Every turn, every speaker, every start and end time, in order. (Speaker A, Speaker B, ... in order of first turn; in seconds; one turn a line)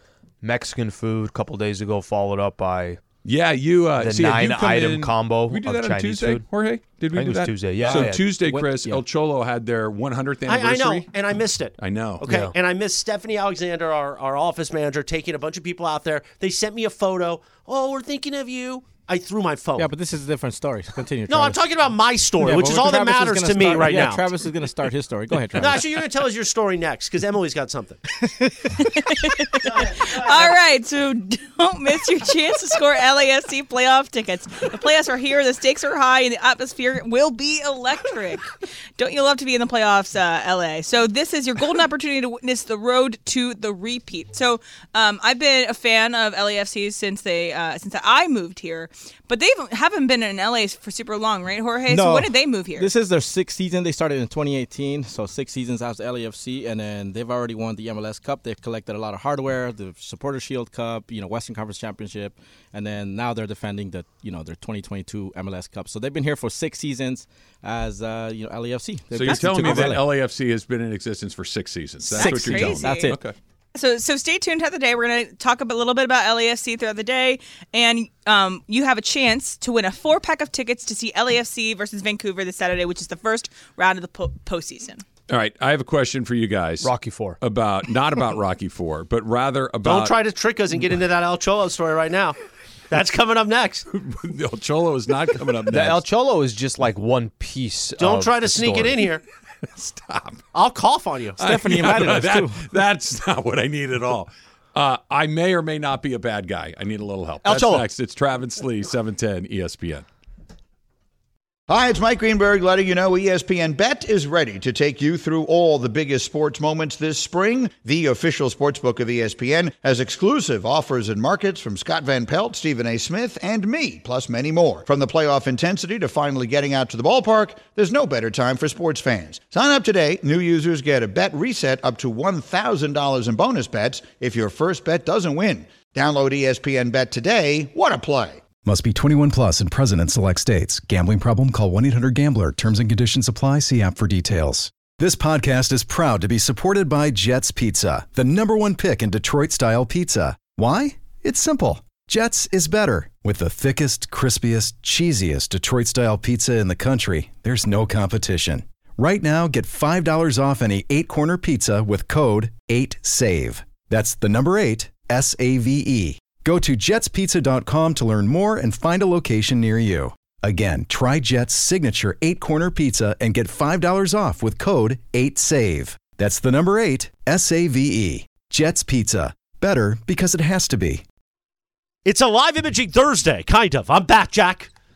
Speaker A: 0.4-3.0
Speaker B: 3.2-11.1
Speaker A: 4.0-6.4
Speaker A: 7.1-8.4
Speaker C: 7.8-9.0
Speaker D: 10.5-19.9
Speaker B: 11.8-12.2
Speaker A: 12.2-12.5
Speaker C: 19.8-21.7
Speaker D: 21.3-24.4
Speaker C: 22.4-26.0
Speaker D: 25.5-28.0
Speaker C: 28.2-28.9
Speaker E: 28.8-52.9
Speaker D: 29.7-30.5
Speaker C: 51.9-70.2
Speaker B: 69.1-73.3
Speaker E: 72.1-73.1
Speaker C: 72.1-73.2
Speaker E: 73.8-85.0
Speaker B: 85.3-90.2
Speaker A: 86.8-87.4
Speaker D: 89.8-92.4
Speaker D: 92.9-93.9
Speaker B: 93.9-96.0
Speaker A: 95.7-99.0
Speaker D: 98.0-99.2
Speaker B: 99.7-100.4
Speaker D: 100.5-101.4
Speaker C: 101.4-102.7
Speaker B: 101.4-110.0
Speaker A: 107.4-107.8
Speaker F: 111.7-138.4
Speaker G: 138.6-181.0
Speaker D: 182.1-184.7